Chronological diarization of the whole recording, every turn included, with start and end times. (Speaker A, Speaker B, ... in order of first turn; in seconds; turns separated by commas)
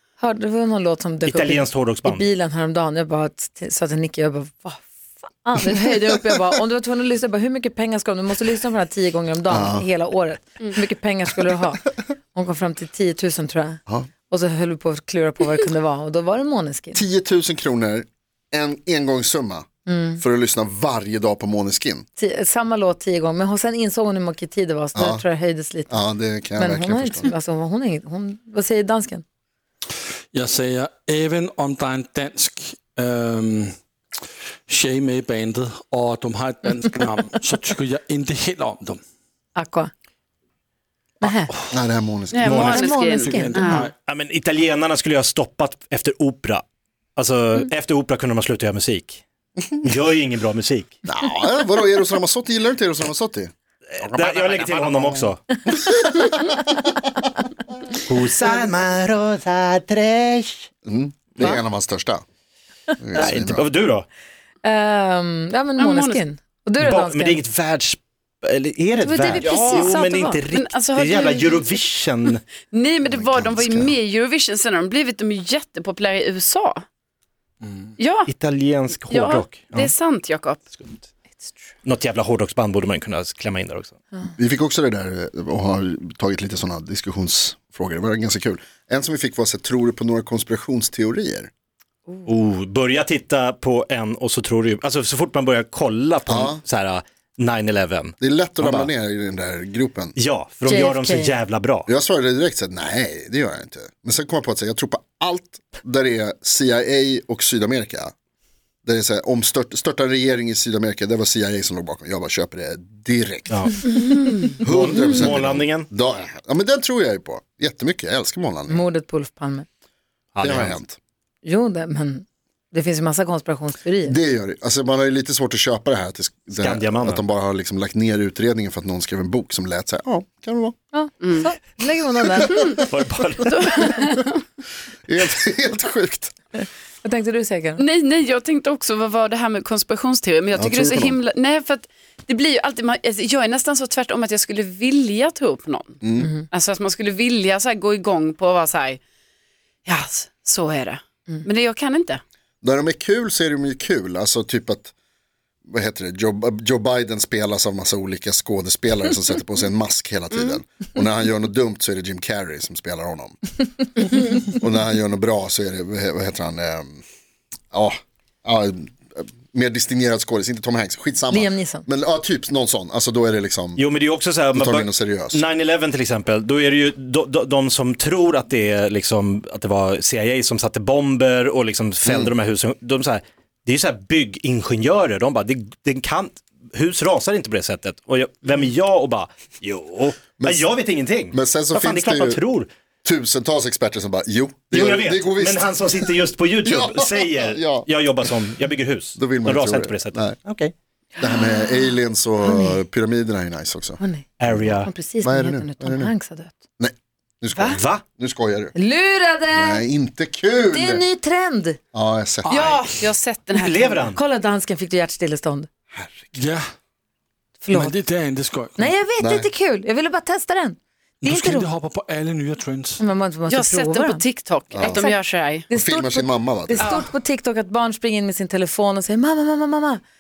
Speaker A: 0.2-17.0, Speaker B: 1.2-2.3, Speaker C: 9.5-9.9, Speaker C: 16.9-19.7, Speaker A: 19.9-20.2, Speaker C: 20.2-22.1, Speaker A: 22.2-26.0, Speaker C: 24.9-25.2, Speaker C: 25.9-27.3, Speaker A: 26.6-29.2, Speaker D: 30.3-33.8, Speaker D: 34.7-39.0, Speaker A: 39.6-39.9, Speaker A: 41.2-41.5, Speaker C: 41.2-42.6, Speaker E: 42.3-43.9, Speaker A: 42.4-43.9, Speaker B: 42.5-42.8, Speaker D: 42.7-43.9, Speaker B: 44.1-46.6, Speaker B: 47.2-49.2, Speaker B: 49.8-51.0, Speaker C: 51.0-56.8, Speaker B: 53.9-55.4, Speaker B: 58.0-60.7, Speaker C: 60.9-62.2, Speaker C: 63.0-63.6, Speaker B: 63.1-64.1, Speaker A: 64.6-67.4, Speaker E: 65.8-66.2, Speaker B: 66.8-72.4, Speaker A: 69.0-70.4, Speaker E: 69.4-70.0, Speaker E: 70.5-71.8, Speaker E: 72.7-76.8, Speaker C: 73.1-74.0, Speaker D: 77.6-77.9, Speaker E: 78.0-78.3, Speaker B: 78.3-79.9, Speaker E: 79.1-80.7, Speaker B: 81.8-84.0, Speaker C: 84.3-91.5, Speaker B: 92.3-98.9, Speaker C: 96.3-96.6, Speaker C: 98.2-100.2, Speaker B: 100.2-101.9, Speaker A: 100.7-101.3, Speaker C: 101.9-108.1, Speaker C: 108.8-113.9, Speaker B: 113.5-113.9, Speaker B: 114.5-115.9, Speaker C: 114.6-118.8, Speaker A: 118.7-119.7, Speaker B: 120.3-120.8, Speaker C: 120.4-121.0, Speaker A: 121.4-124.2, Speaker C: 124.0-130.8, Speaker B: 126.6-127.2, Speaker A: 130.9-132.6, Speaker E: 131.2-131.5, Speaker E: 132.5-132.8, Speaker B: 132.8-133.6, Speaker E: 133.5-134.4, Speaker C: 135.1-136.3, Speaker A: 137.0-137.8, Speaker E: 137.8-146.0, Speaker C: 140.5-141.2, Speaker C: 146.0-146.3, Speaker A: 146.2-146.5, Speaker E: 146.5-149.0, Speaker E: 149.9-152.2, Speaker C: 152.6-154.9, Speaker C: 155.7-163.4, Speaker C: 164.4-167.0, Speaker C: 167.7-173.8, Speaker A: 171.3-171.9, Speaker B: 173.8-192.7, Speaker C: 174.6-175.4, Speaker C: 182.1-182.3, Speaker C: 190.4-190.7, Speaker C: 191.3-192.4, Speaker C: 193.0-197.9, Speaker B: 194.7-200.7, Speaker C: 199.2-200.4, Speaker C: 201.2-204.6, Speaker A: 201.2-201.8, Speaker A: 202.4-202.8, Speaker A: 204.0-206.6, Speaker B: 204.4-204.9, Speaker C: 205.2-206.1, Speaker C: 206.8-208.8, Speaker B: 207.7-208.0, Speaker A: 208.8-209.8, Speaker C: 209.5-211.0, Speaker A: 210.7-211.8, Speaker C: 211.9-212.9, Speaker D: 212.4-212.8, Speaker E: 212.5-214.1, Speaker B: 213.5-214.2, Speaker A: 214.0-215.7, Speaker C: 215.9-216.4, Speaker D: 216.3-216.7, Speaker A: 217.6-217.9, Speaker D: 217.7-218.9, Speaker A: 218.8-221.7, Speaker C: 219.2-219.5, Speaker D: 221.2-223.0, Speaker A: 223.0-224.2, Speaker E: 223.5-225.7, Speaker C: 224.7-225.1, Speaker A: 224.8-230.0, Speaker C: 225.7-227.0, Speaker E: 226.8-227.1